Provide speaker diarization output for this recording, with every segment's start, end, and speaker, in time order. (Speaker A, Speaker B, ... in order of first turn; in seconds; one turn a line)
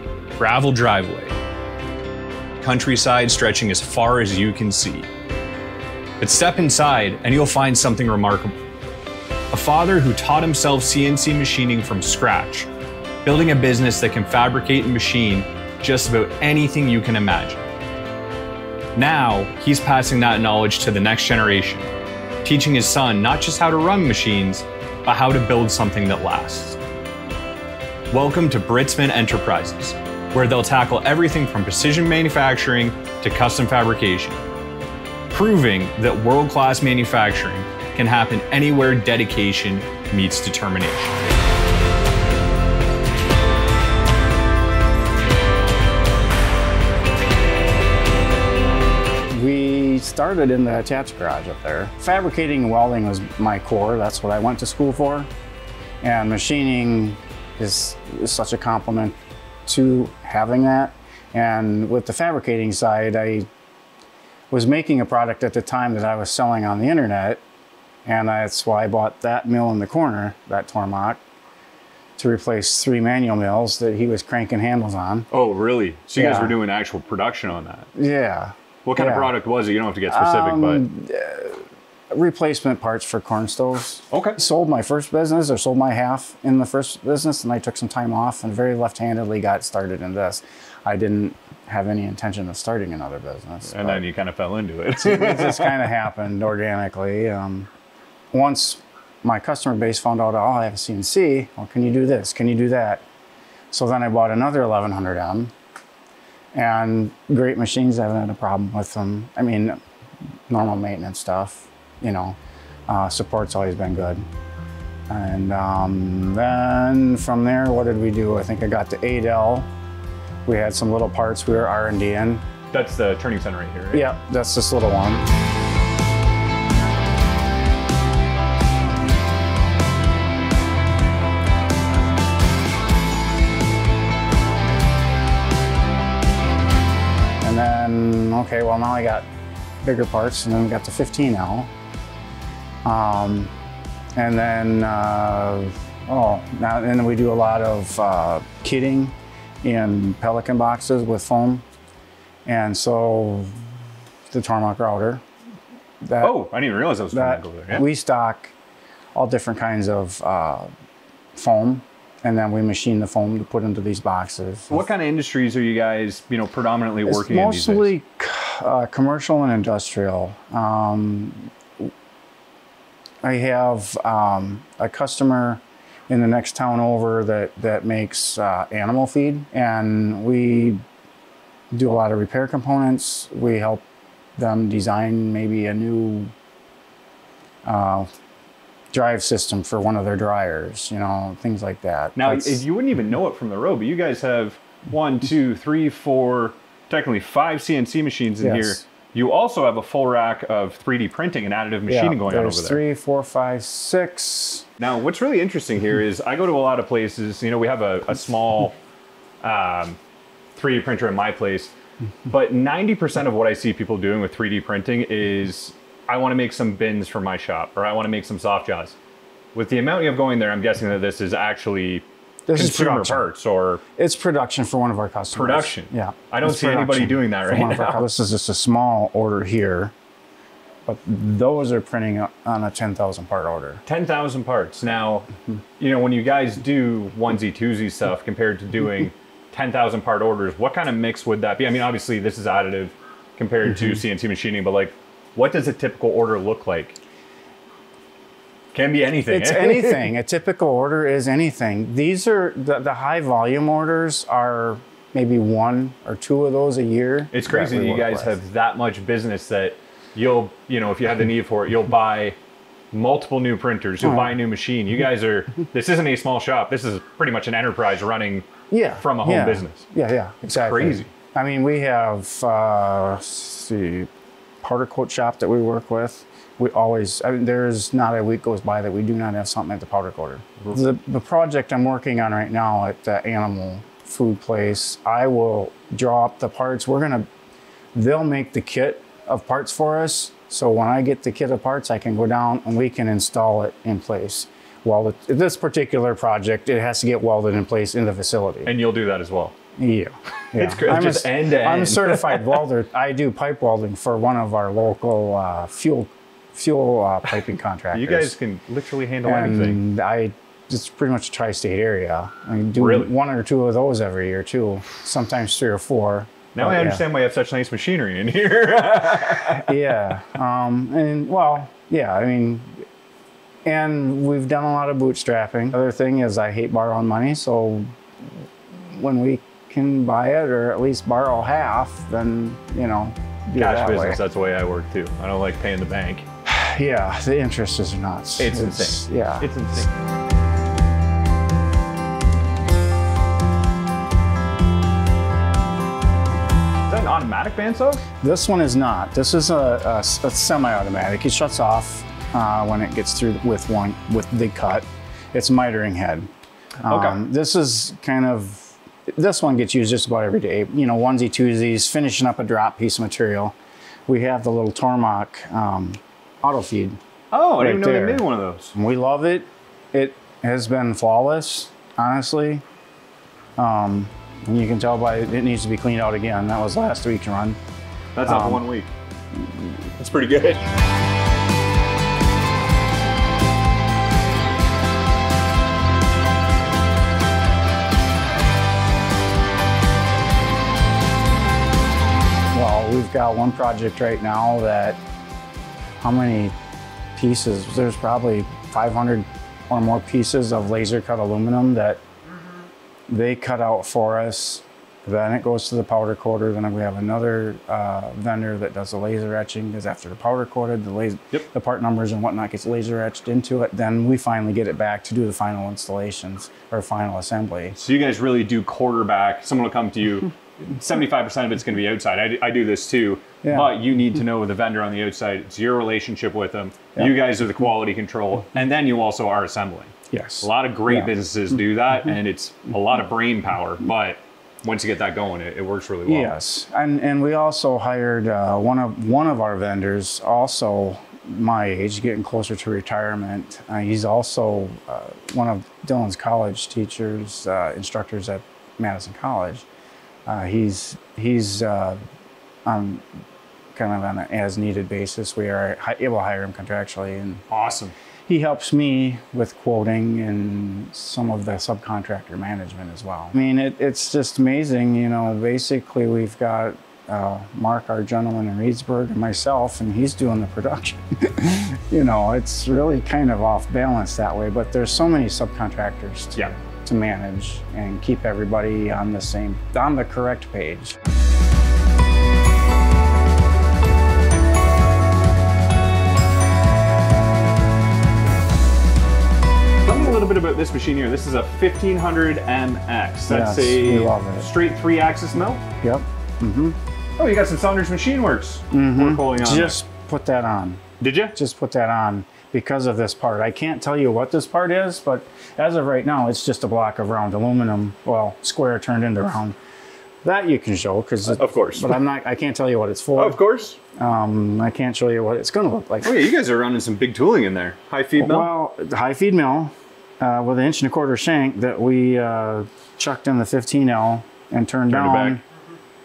Speaker A: 0.4-1.4
Speaker A: 2.6-5.1
Speaker A: 6.2-8.6
Speaker A: 9.5-12.7
Speaker A: 13.2-17.6
Speaker A: 19.0-21.9
Speaker A: 22.4-26.8
Speaker A: 28.1-34.4
Speaker A: 35.3-41.1
Speaker B: 49.3-55.3
Speaker B: 56.0-63.5
Speaker B: 64.5-67.4
Speaker B: 68.0-71.2
Speaker B: 72.2-75.3
Speaker A: 75.3-77.9
Speaker B: 76.2-76.6
Speaker B: 78.0-79.3
Speaker A: 78.8-80.8
Speaker B: 80.1-94.0
Speaker A: 84.1-84.4
Speaker A: 93.7-95.8
Speaker B: 95.0-97.7
Speaker B: 98.3-103.0
Speaker B: 103.7-105.5
Speaker B: 106.5-109.8
Speaker B: 110.5-112.4
Speaker B: 112.9-114.2
Speaker B: 115.1-119.7
Speaker B: 120.5-122.4
Speaker A: 122.7-124.1
Speaker B: 123.9-125.3
Speaker B: 137.4-139.3
Speaker B: 139.8-141.7
Speaker B: 142.8-143.5
Speaker B: 144.2-151.6
Speaker B: 152.4-153.5
Speaker B: 154.3-155.2
Speaker B: 156.0-156.4
Speaker A: 156.2-157.8
Speaker B: 157.1-158.5
Speaker B: 159.2-160.7
Speaker B: 161.3-164.8
Speaker A: 164.7-167.9
Speaker B: 167.1-171.9
Speaker B: 173.2-180.8
Speaker B: 181.7-183.8
Speaker B: 184.4-186.3
Speaker B: 187.7-188.1
Speaker B: 188.9-192.7
Speaker A: 192.2-202.8
Speaker B: 198.4-198.8
Speaker B: 201.9-204.7
Speaker A: 204.8-208.8
Speaker A: 209.4-210.0
Speaker A: 210.6-211.7
Speaker A: 212.3-219.0
Speaker A: 219.5-223.8
Speaker B: 222.5-223.3
Speaker B: 224.0-229.9
Speaker A: 225.3-228.1
Speaker B: 230.9-233.8
Speaker A: 233.9-235.3
Speaker A: 235.8-247.0
Speaker A: 248.7-250.1
Speaker B: 249.3-258.4
Speaker A: 257.3-262.4
Speaker A: 262.9-269.9
Speaker B: 264.0-264.4
Speaker B: 268.7-274.1
Speaker A: 270.4-271.1
Speaker B: 274.6-287.3
Speaker B: 287.9-298.7
Speaker A: 298.6-299.6
Speaker B: 299.8-308.4
Speaker A: 300.6-302.6
Speaker A: 307.9-309.8
Speaker B: 309.2-317.0
Speaker A: 312.8-313.1
Speaker A: 316.5-319.8
Speaker B: 319.5-322.8
Speaker B: 323.6-327.9
Speaker B: 328.7-334.2
Speaker A: 333.6-336.3
Speaker B: 336.5-339.5
Speaker A: 338.4-339.9
Speaker A: 346.9-348.0
Speaker B: 348.2-356.3
Speaker B: 356.8-363.6
Speaker A: 356.9-357.2
Speaker B: 364.1-367.0
Speaker A: 367.3-368.8
Speaker B: 367.6-372.6
Speaker B: 373.6-377.6
Speaker A: 378.1-378.9
Speaker B: 378.3-378.6
Speaker A: 380.0-380.6
Speaker B: 392.5-395.0
Speaker B: 396.0-396.5
Speaker B: 397.1-402.0
Speaker B: 403.1-417.8
Speaker A: 417.7-436.3
Speaker B: 423.4-423.8
Speaker B: 430.1-431.1
Speaker B: 436.1-449.7
Speaker B: 450.3-452.0
Speaker B: 452.6-453.1
Speaker B: 453.8-457.4
Speaker A: 457.5-457.9
Speaker B: 458.3-481.0
Speaker A: 489.8-495.6
Speaker B: 493.3-494.5
Speaker B: 495.8-496.8
Speaker A: 497.2-499.8
Speaker B: 498.7-500.8
Speaker A: 501.0-501.4
Speaker B: 501.4-509.6
Speaker B: 510.2-513.4
Speaker A: 511.3-512.0
Speaker A: 513.2-513.8
Speaker B: 514.0-516.1
Speaker A: 516.0-518.5
Speaker B: 518.2-525.4
Speaker A: 524.9-525.4